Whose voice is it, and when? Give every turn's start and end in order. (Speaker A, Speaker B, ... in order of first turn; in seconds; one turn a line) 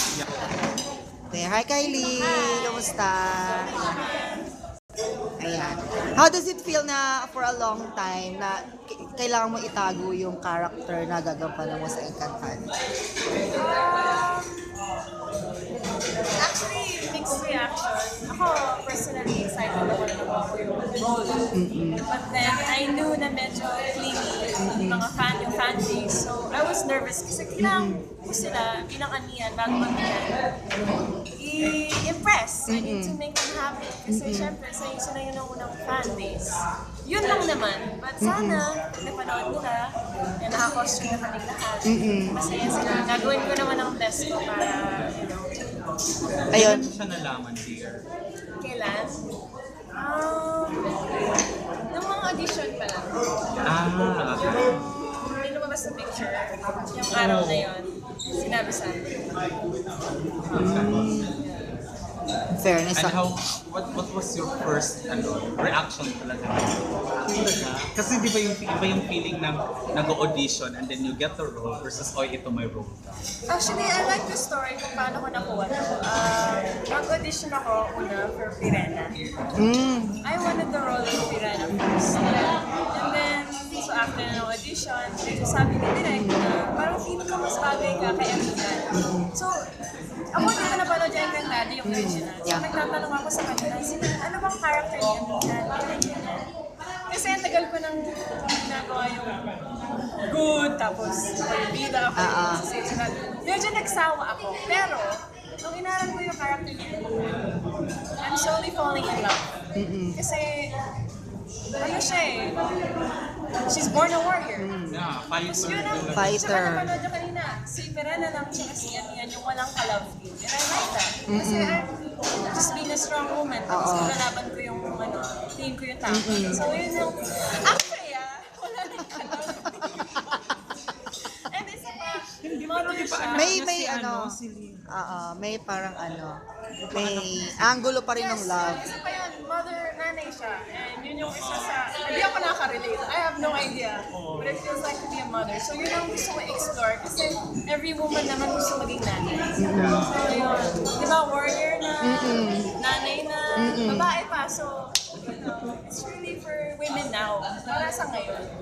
Speaker A: 1.3-3.8
Speaker B: 2.2-2.9
Speaker B: 3.7-4.5
Speaker A: 5.4-12.7
Speaker B: 13.5-14.6
Speaker B: 16.4-21.0
Speaker A: 21.5-22.0
Speaker B: 22.1-30.4
Speaker A: 24.6-25.0
Speaker A: 27.6-28.0
Speaker B: 31.4-45.6
Speaker A: 32.7-33.2
Speaker A: 34.1-34.5
Speaker A: 38.2-38.6
Speaker A: 41.9-42.4
Speaker C: 46.5-48.0
Speaker A: 46.5-46.9
Speaker B: 48.6-49.2
Speaker B: 49.9-51.1
Speaker B: 51.9-53.2
Speaker C: 53.6-54.8
Speaker B: 54.7-56.6
Speaker B: 57.1-59.1
Speaker C: 57.1-57.7
Speaker C: 60.4-61.2
Speaker A: 60.5-61.4
Speaker B: 61.4-61.7
Speaker A: 62.6-63.1
Speaker C: 62.9-73.2
Speaker B: 73.5-79.3
Speaker A: 79.6-80.2
Speaker B: 80.2-89.6
Speaker A: 81.7-82.0
Speaker A: 86.1-86.5
Speaker A: 88.9-89.3
Speaker B: 90.3-96.5
Speaker A: 91.8-92.6
Speaker B: 97.1-99.5
Speaker B: 100.2-107.2
Speaker A: 102.2-102.6
Speaker B: 108.2-109.6
Speaker A: 109.8-110.2
Speaker B: 110.2-110.7
Speaker B: 111.8-112.9
Speaker B: 113.7-114.7
Speaker A: 114.6-115.0
Speaker C: 114.9-116.4
Speaker B: 115.5-121.9
Speaker A: 116.1-116.9
Speaker A: 121.3-121.8
Speaker B: 122.5-130.5
Speaker A: 123.7-124.2
Speaker A: 126.1-126.6
Speaker A: 129.1-130.4
Speaker B: 131.1-133.6
Speaker C: 132.4-134.9
Speaker A: 133.3-134.3
Speaker A: 134.9-136.4
Speaker C: 136.9-137.7
Speaker A: 136.9-138.8
Speaker B: 138.1-158.5
Speaker C: 141.2-141.8
Speaker C: 144.1-144.6
Speaker A: 149.6-150.1
Speaker C: 149.7-150.1
Speaker A: 152.0-152.7
Speaker A: 153.6-154.1